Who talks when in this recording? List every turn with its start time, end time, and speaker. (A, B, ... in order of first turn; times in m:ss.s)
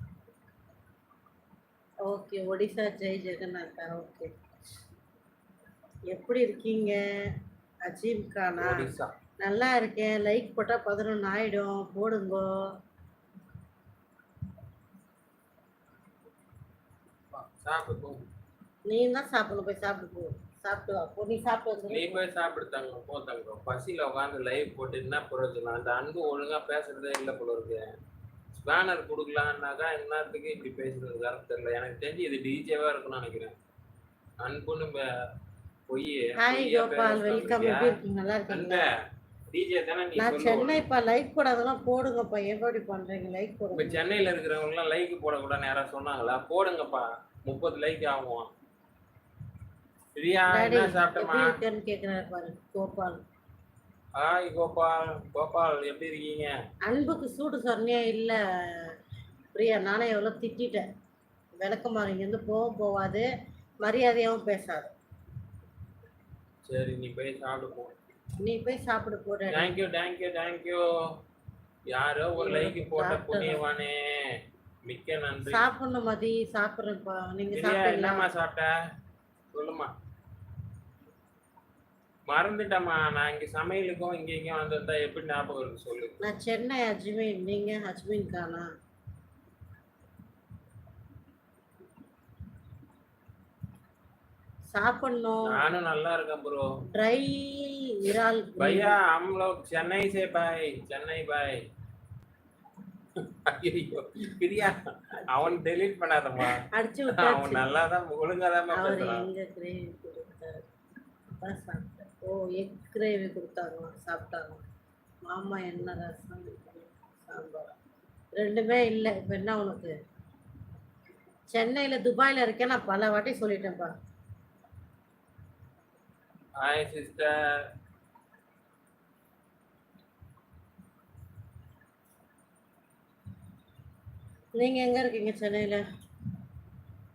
0:02.1-0:04.3 A
0:06.1-0:08.9 A
0:08.6-0:09.1 B
0:09.4-0:12.7 A
0:17.3-0:18.2 B
0:18.9-0:22.2 A
0:21.9-0:27.9 B
0:28.5-0:33.5 B
0:34.4-0:35.0 B
0:35.9-0:38.0 B
0:36.4-0:38.9 A
0:38.5-0:38.9 B
0:39.5-0:40.8 B
0:40.2-0:44.1 A
0:43.7-0:48.5 B
0:50.2-0:51.6 B
0:50.5-0:53.2 A
0:54.2-0:56.5 B
0:56.9-0:58.9 A
0:59.6-1:00.9 A
1:01.6-1:03.3 A
1:03.8-1:04.9 A
1:06.7-1:07.9 B
1:08.4-1:09.7 A
1:09.5-1:10.9 B
1:11.9-1:15.7 B
1:12.4-1:13.6 A
1:15.5-1:18.3 A
1:17.5-1:18.8 B
1:19.5-1:19.9 B
1:22.3-1:26.2 B
1:26.2-1:28.7 A
1:34.7-1:35.6 A
1:35.5-1:36.7 B
1:37.0-1:39.0 A
1:38.6-1:41.6 B
1:43.2-1:49.3 B
1:46.5-1:47.7 A
1:48.7-1:50.7 A
1:51.3-1:54.6 A
1:55.3-1:57.8 A
1:58.4-1:59.9 A
2:01.5-2:03.9 A
2:06.6-2:07.4 B
2:14.6-2:15.8 A